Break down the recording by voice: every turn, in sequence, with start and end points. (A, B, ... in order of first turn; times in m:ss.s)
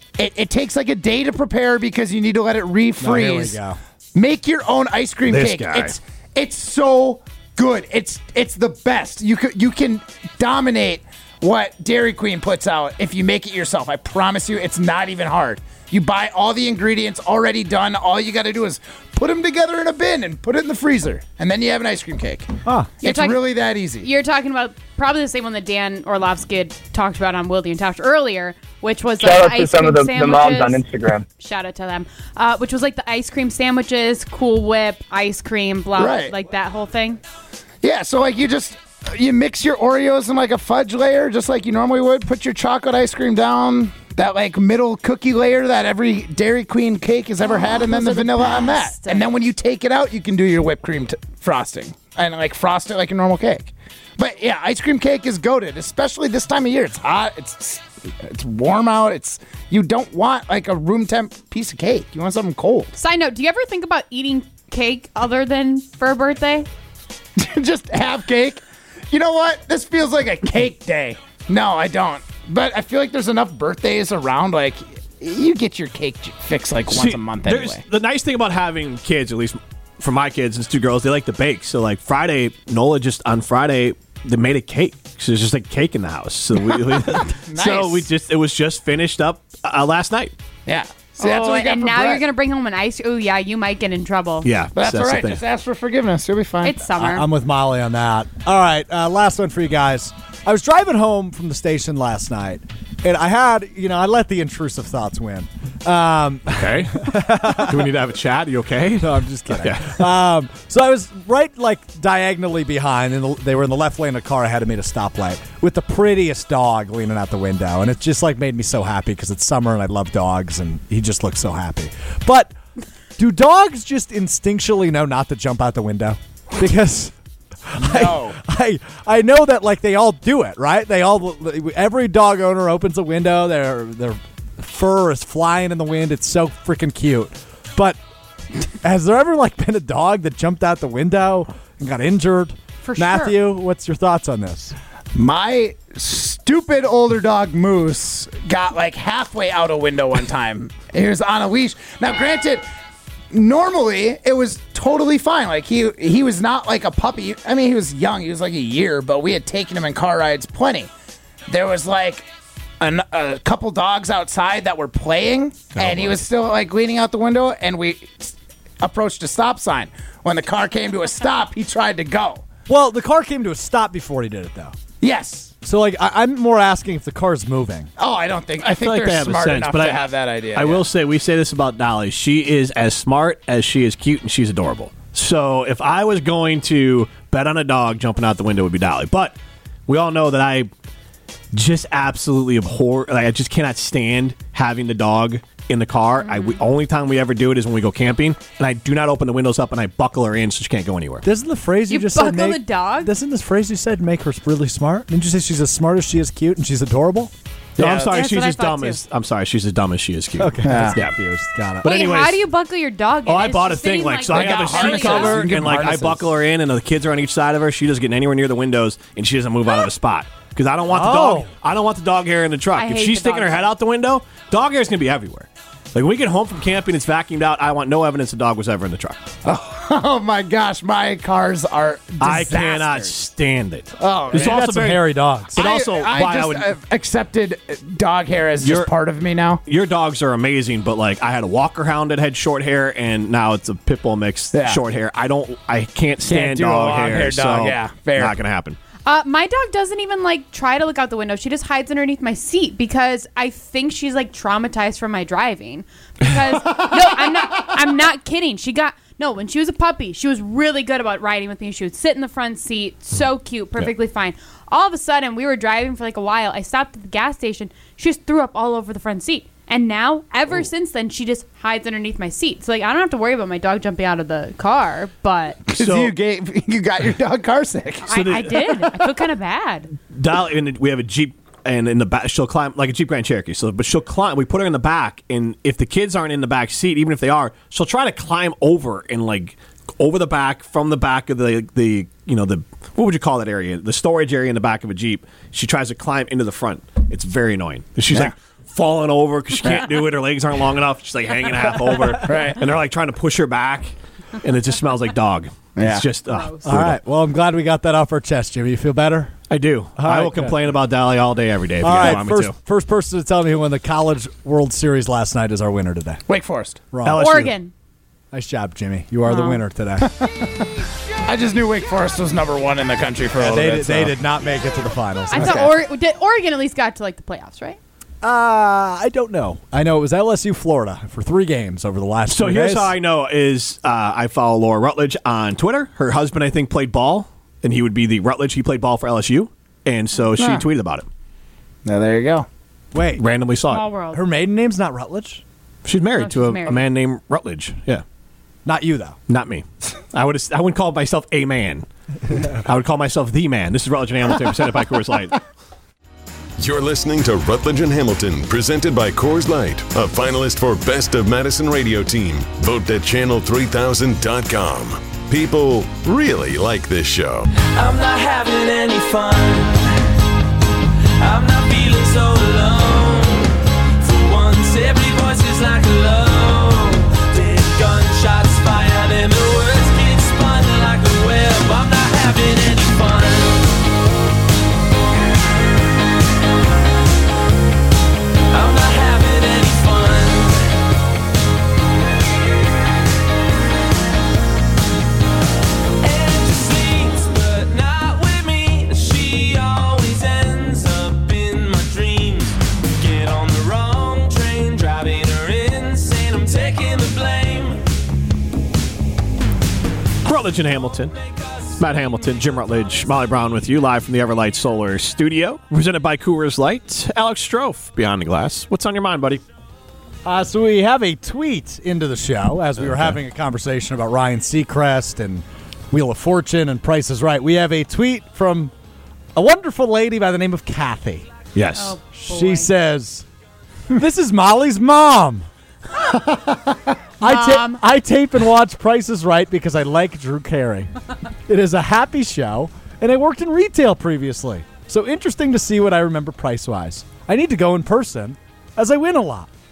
0:00.2-0:03.6 A
0:03.0-0:03.8 B
0:04.1-0:22.5 A
0:05.3-0:06.0 C
0:22.6-0:22.9 B
0:23.0-0:24.1 A
0:23.0-0:23.5 D
0:24.0-0:30.8 D
0:29.2-0:31.2 E
0:31.4-0:37.2 D
0:35.9-0:36.3 A
0:37.8-1:02.9 A
0:47.4-0:49.3 D
1:02.9-1:06.7 D
1:07.4-1:17.8 A
1:16.9-1:30.3 C
1:26.9-1:28.1 A
1:30.6-1:32.2 A
1:31.2-1:34.5 D
1:34.4-1:35.4 C
1:34.8-1:36.8 A
1:36.6-1:37.3 D
1:37.0-1:48.0 B
1:46.5-1:50.0 C
1:49.0-2:02.5 B
2:03.2-2:07.1 B
2:07.6-2:18.0 B
2:07.8-2:08.4 A
2:18.8-2:24.8 B
2:22.8-2:23.4 D
2:25.1-2:32.6 A
2:33.3-2:40.9 A
2:41.5-2:42.3 A
2:42.8-2:52.4 A
2:45.8-2:46.2 C
2:52.7-2:54.8 B
2:55.0-2:55.5 A
2:55.6-2:57.9 B
2:58.0-3:00.8 A
2:58.6-3:09.4 C
3:09.9-3:10.7 C
3:11.5-3:21.2 C
3:16.2-3:16.6 D
3:21.2-3:27.3 B
3:21.9-3:23.1 D
3:27.8-3:28.1 A
3:27.8-3:31.2 C
3:28.1-3:29.0 D
3:30.4-3:31.9 B
3:30.6-3:31.0 A
3:31.8-3:32.4 C
3:31.8-3:35.5 D
3:33.3-3:49.2 C
3:34.3-3:36.3 A
3:40.9-3:41.5 B
3:42.8-3:43.7 D
3:49.4-3:53.1 A
3:52.2-3:56.7 C
3:54.0-3:54.6 A
3:54.3-3:55.6 B
3:55.5-3:59.6 A
3:58.6-3:58.9 C
3:59.6-4:08.8 C
4:04.5-4:04.8 A
4:06.3-4:08.4 A
4:09.1-4:35.6 D
4:16.6-4:17.6 A
4:35.7-4:38.1 A
4:35.8-4:36.1 C
4:38.1-4:39.9 D
4:38.1-4:39.0 C
4:40.1-5:07.0 C
5:02.2-5:02.6 A
5:05.8-5:06.1 A
5:06.3-5:06.6 D
5:06.6-5:09.4 B
5:09.5-5:12.6 C
5:10.0-5:10.6 B
5:11.8-5:16.2 B
5:16.3-5:16.8 A
5:16.9-5:17.3 B
5:17.0-5:17.6 C
5:17.2-5:17.7 D
5:18.3-5:20.1 B
5:19.3-5:19.6 D
5:21.2-5:24.1 A
5:23.4-5:25.7 B
5:25.3-5:27.8 D
5:25.4-5:25.7 A
5:28.2-5:32.9 B
5:32.3-5:41.1 C
5:40.4-5:40.6 A
5:41.8-5:42.5 A
5:42.9-5:43.2 B
5:43.2-5:43.8 C
5:43.7-5:44.2 D
5:44.1-5:45.4 B
5:45.8-5:48.0 C
5:46.2-5:46.8 D
5:48.6-5:49.2 B
5:49.3-5:55.4 C
5:56.6-6:07.5 F
6:07.7-6:10.0 G
6:11.2-6:23.8 G
6:28.5-6:30.7 G
6:36.0-6:47.8 G
6:50.2-6:51.1 C
6:51.2-6:51.8 G
6:51.8-6:59.4 C
7:00.2-7:08.7 B
7:02.8-7:03.2 C
7:09.4-7:11.3 B
7:11.5-7:12.0 C
7:11.8-7:12.7 D
7:12.2-7:13.3 B
7:13.9-7:15.5 B
7:16.1-7:16.6 B
7:17.2-7:20.9 B
7:17.2-7:17.8 D
7:21.5-7:29.5 B